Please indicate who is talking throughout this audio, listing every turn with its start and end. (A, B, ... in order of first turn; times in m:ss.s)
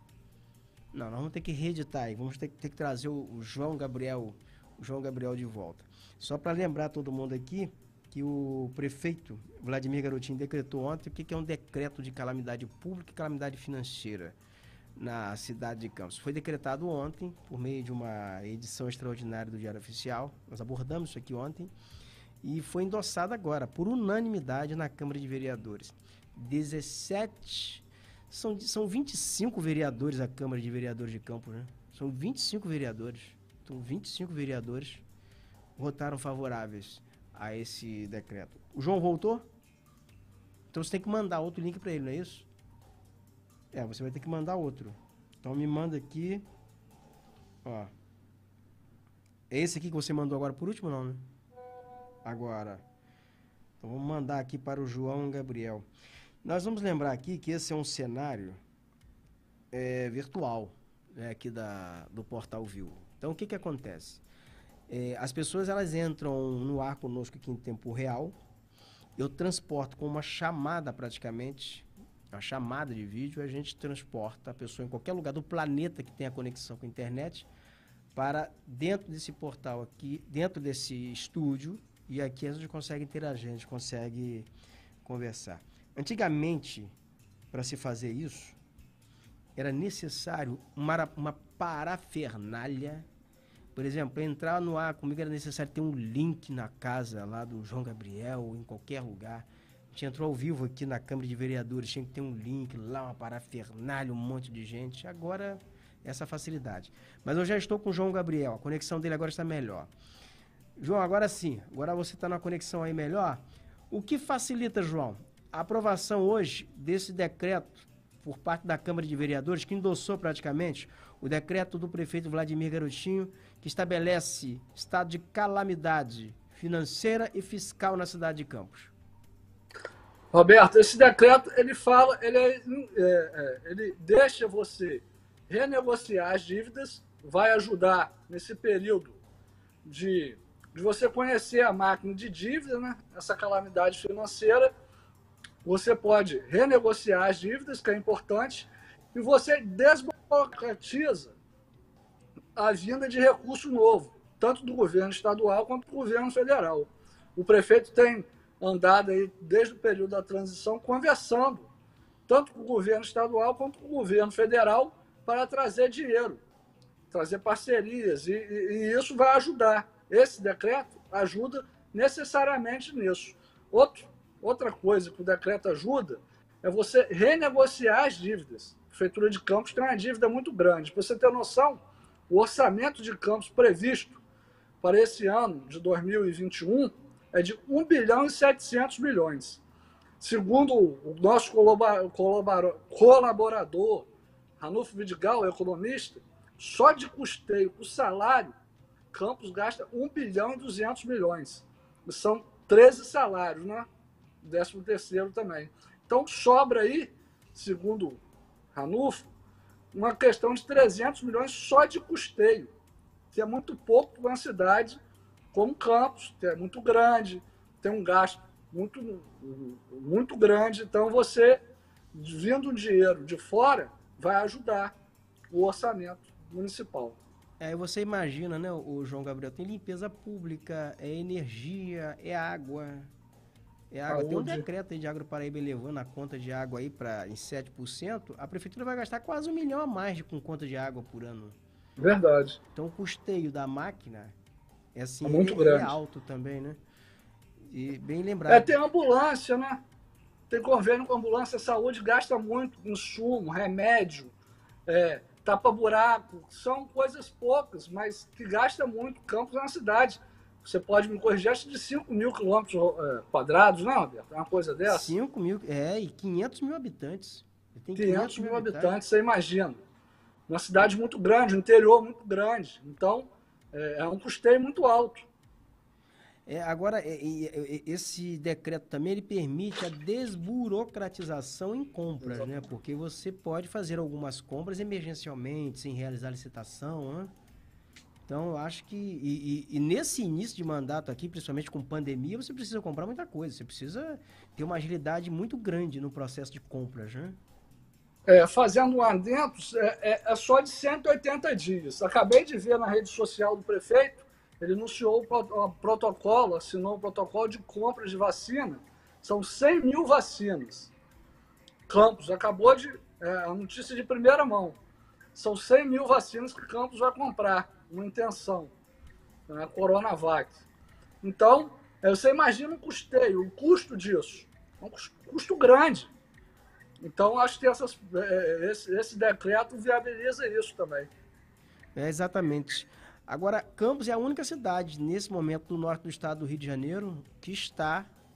0:00.9-0:14.4 A
0:15.0-0:21.7 A
0:22.4-0:35.0 A
0:35.8-0:39.4 A
0:40.7-0:42.5 A
0:43.7-0:46.4 A
0:47.6-0:47.9 A
0:49.5-0:51.2 A
0:52.2-0:52.8 A
0:53.8-0:55.8 A
0:56.4-0:58.6 A
0:59.7-1:04.2 A
1:04.9-1:08.4 A
1:09.2-1:17.5 A
1:18.1-1:24.5 A
1:25.0-1:26.9 A
1:27.5-1:28.6 A
1:29.6-1:33.0 A
1:33.7-1:49.9 A
1:50.8-2:08.9 A
2:10.3-2:19.2 B
2:19.8-2:24.7 B
2:25.6-2:31.4 B
2:32.6-2:41.7 B
2:42.3-2:46.4 B
2:47.1-3:04.2 B
3:04.8-3:09.6 B
3:10.2-3:14.1 B
3:14.6-3:18.5 B
3:19.1-3:23.9 B
3:24.4-3:28.2 B
3:28.7-3:29.3 B
3:29.9-3:32.7 B
3:33.3-3:35.0 B
3:35.5-3:41.6 B
3:42.1-3:44.9 B
3:45.5-3:47.2 B
3:47.6-3:53.1 A
3:53.9-4:01.6 A
3:54.1-3:54.6 B
4:02.0-4:02.6 B
4:02.7-4:04.3 A
4:04.9-4:06.8 A
4:05.2-4:05.9 B
4:07.7-4:08.7 A
4:08.5-4:09.8 B
4:10.5-4:14.3 B
4:14.9-4:25.1 B
4:24.8-4:29.0 A
4:28.0-4:29.8 B
4:30.5-4:35.2 B
4:36.4-4:47.3 A
4:48.2-4:57.4 A
4:58.3-5:10.9 B
5:11.9-5:14.8 B
5:15.3-5:18.7 B
5:19.5-5:20.6 B
5:21.2-5:26.1 B
5:27.0-5:31.1 B
5:31.9-5:38.1 A